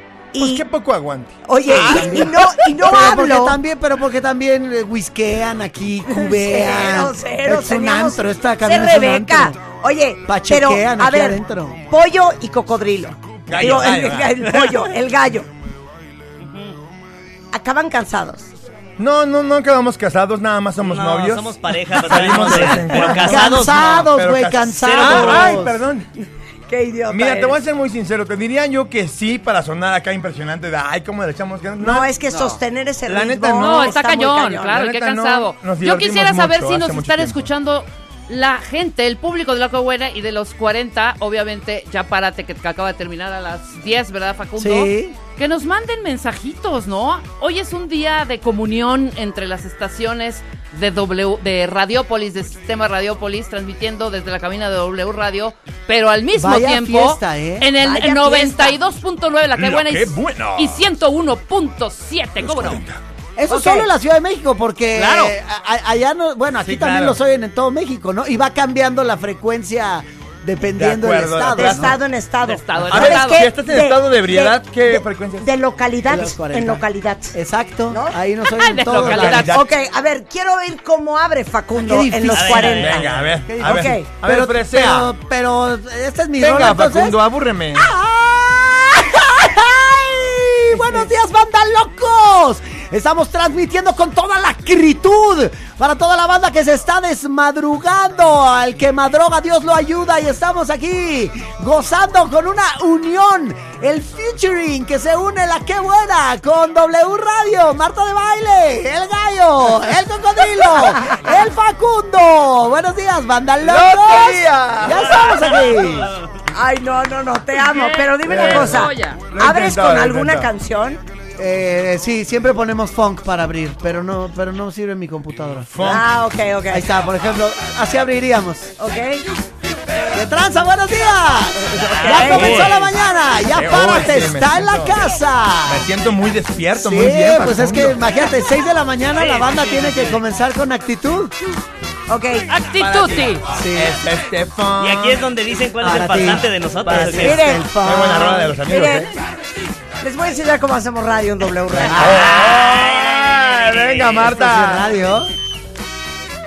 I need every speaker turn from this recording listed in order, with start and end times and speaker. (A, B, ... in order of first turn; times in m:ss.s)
0:00.4-0:00.7 A
0:00.4-0:01.4 B
0:01.4-0:03.6 A
0:01.7-0:02.1 C
0:01.7-0:09.6 D
0:06.1-0:11.4 A
0:10.3-0:11.8 D
0:11.9-0:15.5 A
0:13.5-0:14.4 B
0:16.4-0:16.7 C
0:17.5-0:18.5 A
0:19.0-0:26.1 B
0:20.8-0:24.1 C
0:22.3-0:25.8 D
0:24.6-0:25.6 C
0:26.7-0:27.6 A
0:27.1-0:32.1 B
0:31.8-0:34.8 A
0:33.1-0:34.0 B
0:33.6-1:02.8 E
0:34.7-0:37.5 B
0:44.6-0:45.2 D
0:56.4-0:57.7 D
0:57.8-0:58.8 A
0:59.6-1:00.8 B
1:02.4-1:03.0 B
1:03.4-1:12.0 D
1:03.5-1:03.9 A
1:05.0-1:05.3 E
1:06.6-1:07.2 B
1:10.8-1:12.0 B
1:11.6-1:17.4 A
1:12.4-1:13.5 E
1:12.9-1:15.5 B
1:16.1-1:19.6 D
1:17.9-1:18.2 A
1:18.5-1:19.6 E
1:18.9-1:19.6 B
1:19.4-1:23.1 A
1:21.7-1:27.2 D
1:22.3-1:23.3 C
1:22.8-1:25.1 B
1:23.6-1:24.1 A
1:26.4-1:27.9 B
1:27.8-1:56.1 D
1:53.6-1:55.2 B
1:56.5-2:01.0 A
1:57.6-1:59.2 E
1:58.3-2:00.5 B
2:01.4-2:06.0 D
2:05.7-2:06.1 B
2:05.8-2:06.9 A
2:06.7-2:08.7 D
2:08.8-2:09.2 A
2:10.1-2:15.9 D
2:11.8-2:12.9 C
2:12.0-2:12.6 A
2:13.5-2:15.0 B
2:15.7-2:18.0 B
2:16.8-2:21.4 D
2:19.1-2:20.2 C
2:22.1-2:22.5 A
2:22.5-2:23.4 E
2:22.7-2:25.2 B
2:23.5-2:24.0 D
2:24.8-2:27.4 C
2:25.8-2:28.6 D
2:26.9-2:29.1 B
2:27.2-2:29.1 A
2:30.0-2:32.5 A
2:31.8-2:32.2 D
2:31.9-2:34.9 B
2:32.4-2:34.2 C
2:34.2-2:35.3 D